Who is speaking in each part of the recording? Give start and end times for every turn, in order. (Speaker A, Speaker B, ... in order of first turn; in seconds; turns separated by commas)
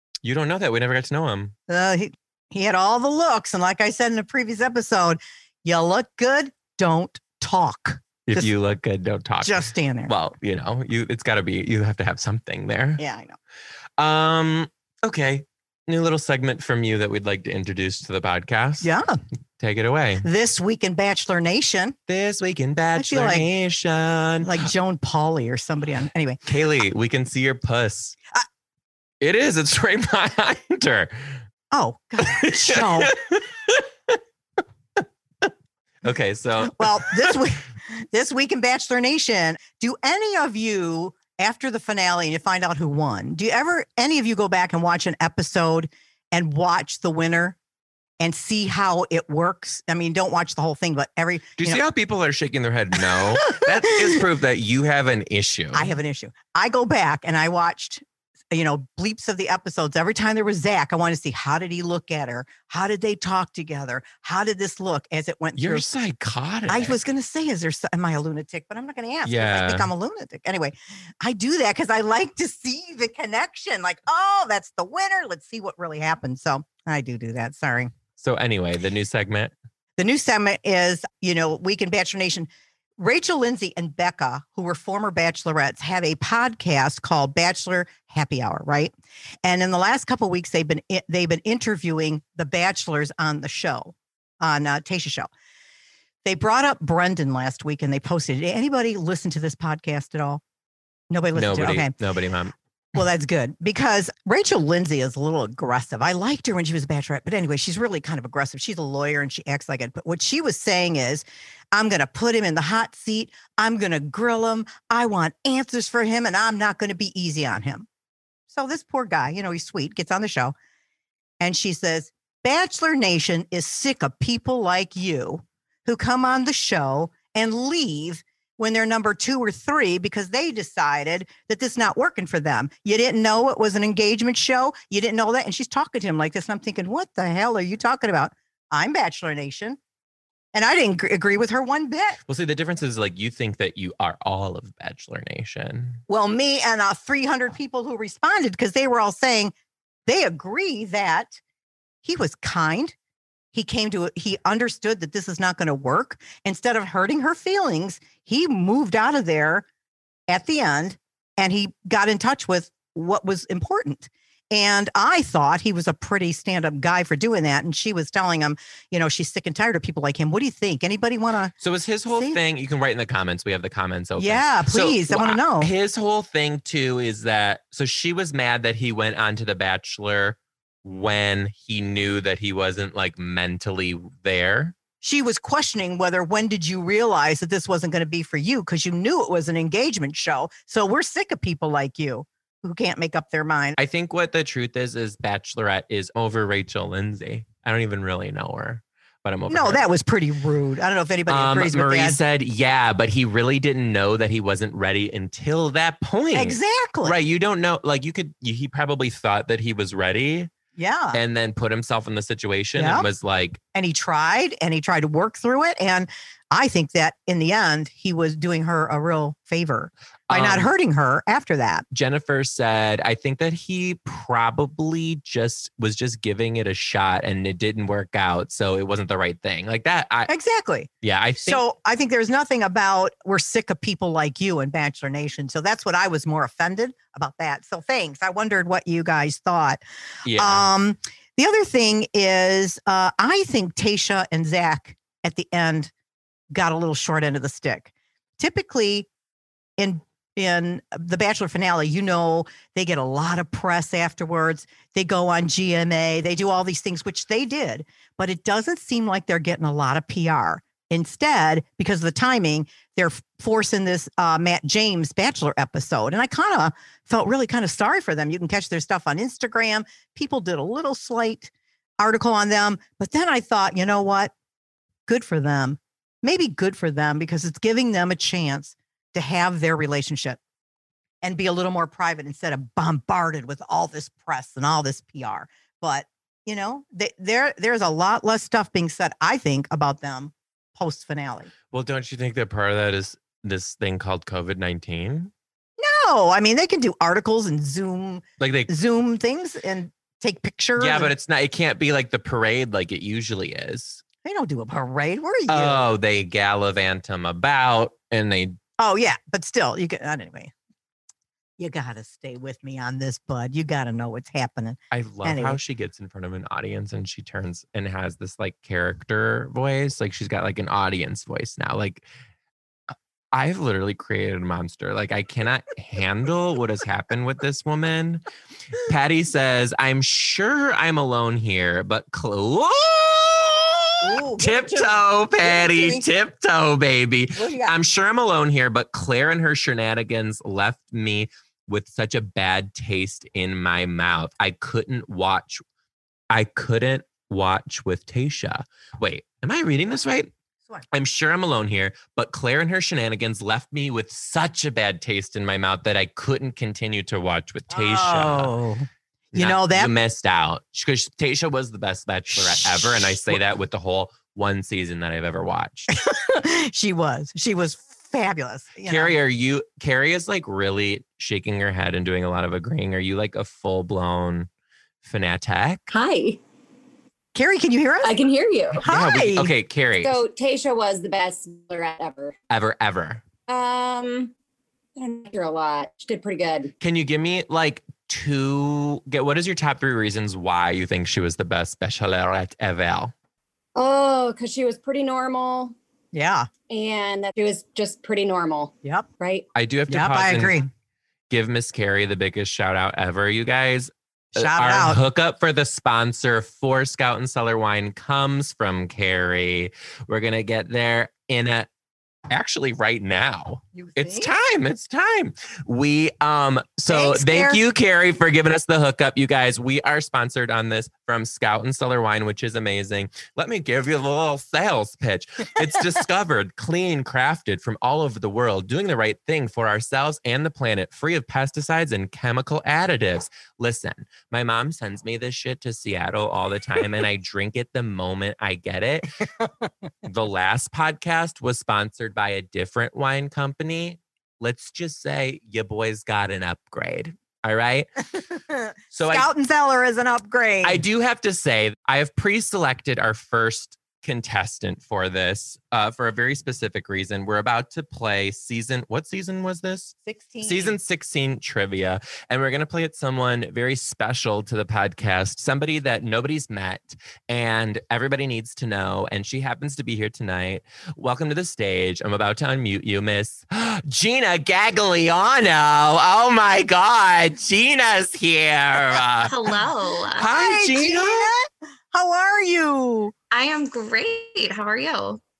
Speaker A: 0.2-1.6, Speaker B: 1.7-8.5, Speaker A: 8.3-13.0, Speaker B: 9.4-10.1, Speaker B: 13.0-13.4, Speaker A: 14.0-18.9, Speaker B: 18.8-19.2, Speaker A: 19.6-20.3, Speaker B: 20.2-22.0, Speaker A: 22.1-24.7, Speaker B: 22.9-23.5, Speaker B: 24.4-26.4, Speaker A: 26.5-28.2, Speaker A: 29.2-31.4, Speaker B: 31.7-33.1, Speaker A: 32.2-34.2, Speaker A: 35.0-35.5, Speaker A: 36.0-37.4, Speaker B: 36.6-47.6, Speaker B: 48.2-51.8, Speaker A: 51.6-56.0, Speaker B: 53.0-54.2, Speaker B: 55.7-65.9, Speaker A: 65.6-67.0, Speaker B: 66.7-77.9, Speaker A: 69.2-69.9, Speaker A: 78.2-79.5, Speaker B: 80.0-95.3, Speaker B: 96.2-100.4, Speaker B: 101.1-101.9, Speaker A: 101.3-102.5, Speaker B: 103.0-117.9, Speaker B: 118.5-120.5, Speaker B: 121.4-139.8, Speaker B: 140.5-142.2, Speaker A: 142.3-146.0, Speaker B: 146.1-149.5, Speaker B: 150.1-151.4, Speaker B: 152.0-152.9, Speaker B: 153.5-159.7, Speaker B: 160.3-171.5, Speaker A: 171.6-184.7, Speaker B: 172.1-172.4, Speaker B: 174.2-175.7, Speaker B: 185.0-193.8, Speaker A: 193.8-199.8, Speaker B: 199.5-202.2, Speaker A: 201.3-210.5, Speaker B: 206.3-207.2, Speaker B: 210.8-211.2, Speaker A: 211.1-213.6, Speaker B: 212.8-213.1, Speaker B: 213.7-221.8, Speaker A: 220.3-220.7, Speaker A: 221.9-230.3, Speaker B: 230.3-230.9, Speaker A: 231.0-231.6, Speaker B: 231.4-239.8, Speaker A: 240.2-240.7, Speaker B: 240.3-245.9, Speaker B: 246.5-249.1, Speaker B: 249.8-274.3, Speaker B: 275.1-280.4, Speaker B: 281.2-291.5, Speaker A: 291.7-295.3, Speaker B: 295.8-301.1, Speaker A: 298.4-298.7, Speaker A: 300.8-304.0, Speaker B: 304.2-305.9, Speaker A: 305.5-308.6, Speaker B: 308.8-310.5, Speaker B: 311.6-315.6, Speaker A: 314.9-322.1, Speaker A: 323.3-328.2, Speaker A: 328.9-345.6, Speaker B: 334.0-336.1, Speaker B: 337.4-337.8, Speaker A: 346.3-350.3, Speaker A: 350.9-358.5, Speaker B: 357.7-359.9, Speaker A: 359.3-365.9, Speaker B: 362.4-363.4, Speaker B: 365.9-369.2, Speaker A: 368.9-374.5, Speaker A: 375.0-375.9, Speaker C: 375.9-376.4, Speaker B: 377.3-378.2, Speaker C: 378.0-378.9, Speaker B: 378.8-379.5, Speaker A: 378.8-380.2, Speaker C: 380.0-382.4, Speaker A: 382.5-383.2, Speaker C: 383.5-384.3, Speaker C: 385.0-386.7, Speaker A: 386.8-393.1, Speaker C: 393.8-395.8, Speaker B: 396.1-396.5, Speaker C: 396.7-399.5, Speaker A: 399.6-400.6, Speaker B: 399.9-400.7, Speaker A: 401.3-411.7, Speaker B: 404.4-405.0, Speaker A: 412.3-439.2, Speaker B: 413.7-414.3, Speaker B: 416.9-417.6, Speaker A: 440.0-447.9, Speaker B: 448.3-450.8, Speaker A: 448.9-449.3, Speaker A: 450.6-479.3, Speaker B: 460.1-460.8, Speaker D: 479.3-480.3, Speaker A: 480.2-481.3, Speaker B: 480.2-483.1, Speaker D: 483.3-485.2